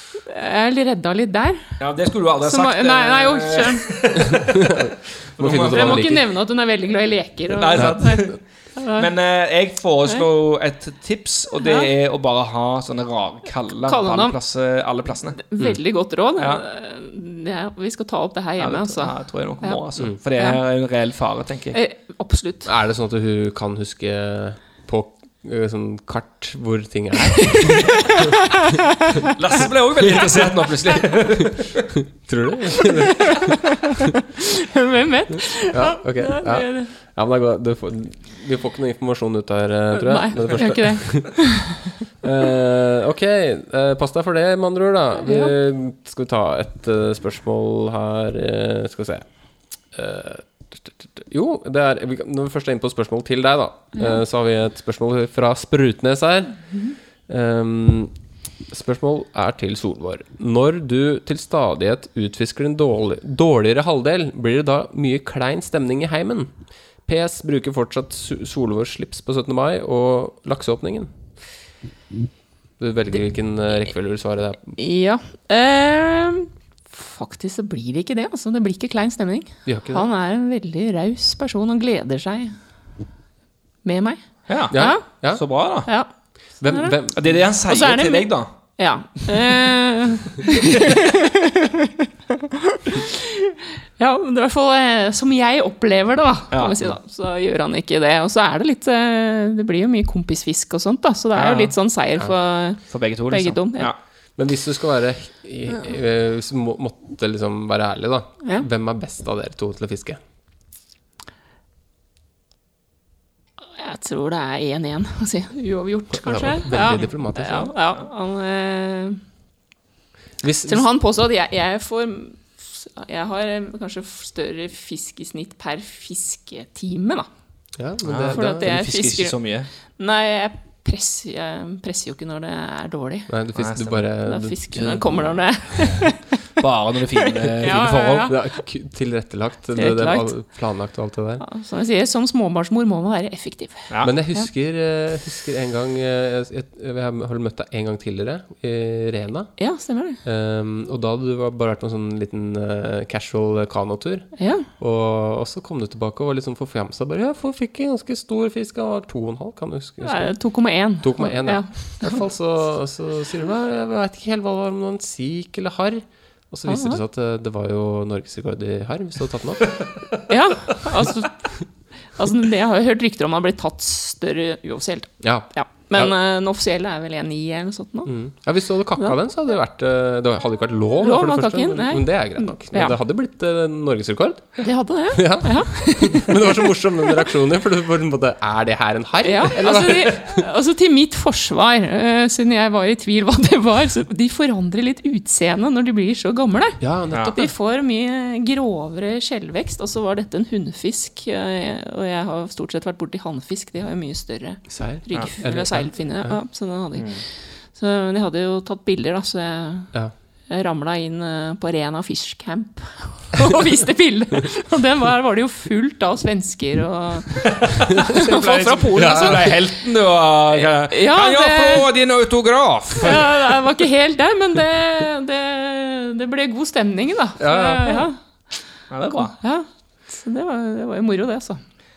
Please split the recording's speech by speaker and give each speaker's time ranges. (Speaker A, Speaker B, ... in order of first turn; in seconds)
Speaker A: 0.3-1.8, 2.4-4.2, 5.6-9.1, 11.6-11.9, 13.8-14.4, 15.4-20.6, 21.7-22.7, 27.5-28.3, 33.3-33.6, 34.4-36.9, 39.9-41.8, 45.2-45.5, 74.8-82.5, 83.8-85.0, 86.7-86.9, 87.7-91.9, 92.7-103.9, 113.6-119.2, 120.7-127.3, 128.3-129.3, 130.0-133.3, 134.2-136.3, 137.3-138.3, 139.7-140.3, 141.4-144.5, 149.6-150.2, 154.4-154.7, 160.0-162.2, 166.7-167.0, 170.3-171.4, 172.1-178.1, 181.0-183.0, 184.6-186.4, 189.2-209.9, 210.5-219.7, 220.8-221.9, 223.0-228.2, 229.1-231.6
Speaker B: 1.8-4.8, 5.4-6.2, 7.5-8.4, 8.9-15.4, 16.4-16.6, 18.6-21.8, 29.4-31.9, 84.5-85.9, 87.1-88.5, 96.5-96.8, 101.3-101.7, 102.9-104.0, 128.0-129.7, 133.6-134.0, 136.6-138.3, 206.9-207.2, 217.4-223.4, 228.9-229.3
Speaker C: 4.4-6.2, 7.8-8.3, 22.6-28.1, 30.0-31.4, 32.2-33.6, 35.7-41.6, 42.2-49.2, 49.9-56.6, 57.3-58.1, 58.7-66.5, 67.0-71.1, 72.8-74.8, 79.7-80.0, 84.7-85.4, 86.6-87.4, 104.4-110.2, 116.2-117.7, 120.4-120.9, 127.8-128.7, 133.3-135.2, 138.3-141.4, 144.0-149.5, 150.2-160.3, 160.9-169.8, 175.2-176.1, 178.1-190.4, 196.8-197.4, 204.7-206.3, 218.9-219.5, 227.4-228.1